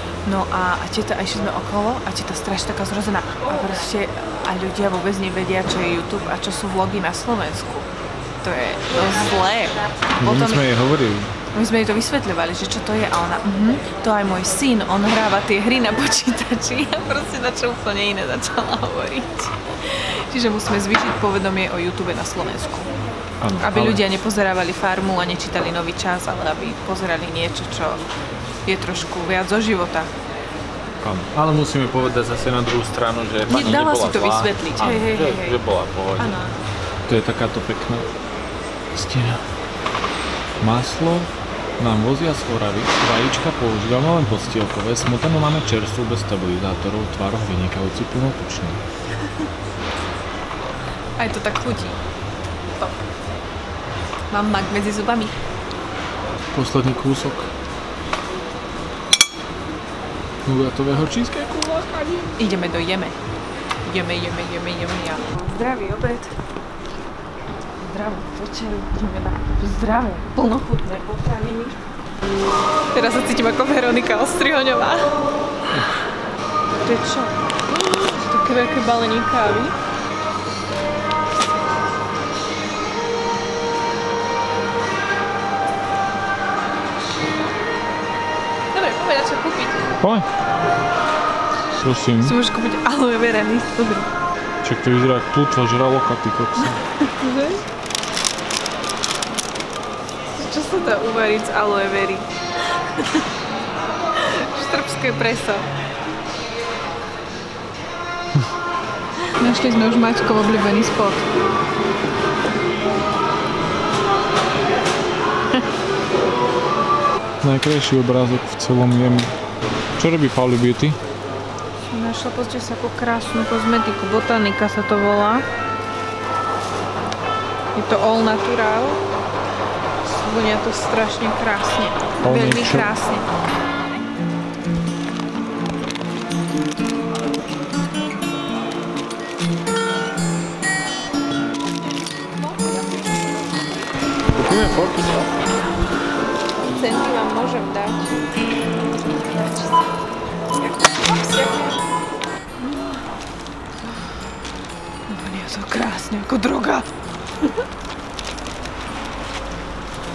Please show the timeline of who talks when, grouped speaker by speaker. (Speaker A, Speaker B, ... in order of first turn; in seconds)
Speaker A: 0.2-7.9, 8.4-10.7, 11.5-22.9, 23.6-28.0, 28.6-30.1, 33.5-35.6, 36.2-36.6, 51.2-52.0, 54.3-55.3, 62.4-63.2, 63.8-66.3, 67.8-71.8, 72.9-75.1, 76.8-79.8, 88.7-89.9, 92.2-94.1, 96.6-97.6, 100.3-103.3, 104.2-105.7, 109.4-111.3, 121.9-125.4, 127.7-129.0, 130.0-133.3, 142.2-143.5, 146.7-148.2, 149.3-149.8, 150.6-151.8, 152.6-153.0, 155.1-156.8
Speaker B: 10.2-11.3, 23.4-24.0, 31.0-36.4, 37.0-38.1, 38.9-39.4, 40.6-48.8, 56.5-57.5, 60.4-62.3, 90.0-90.3, 91.8-92.4, 94.6-96.8, 117.4-119.3, 120.0-121.0, 132.2-132.9, 144.3-145.2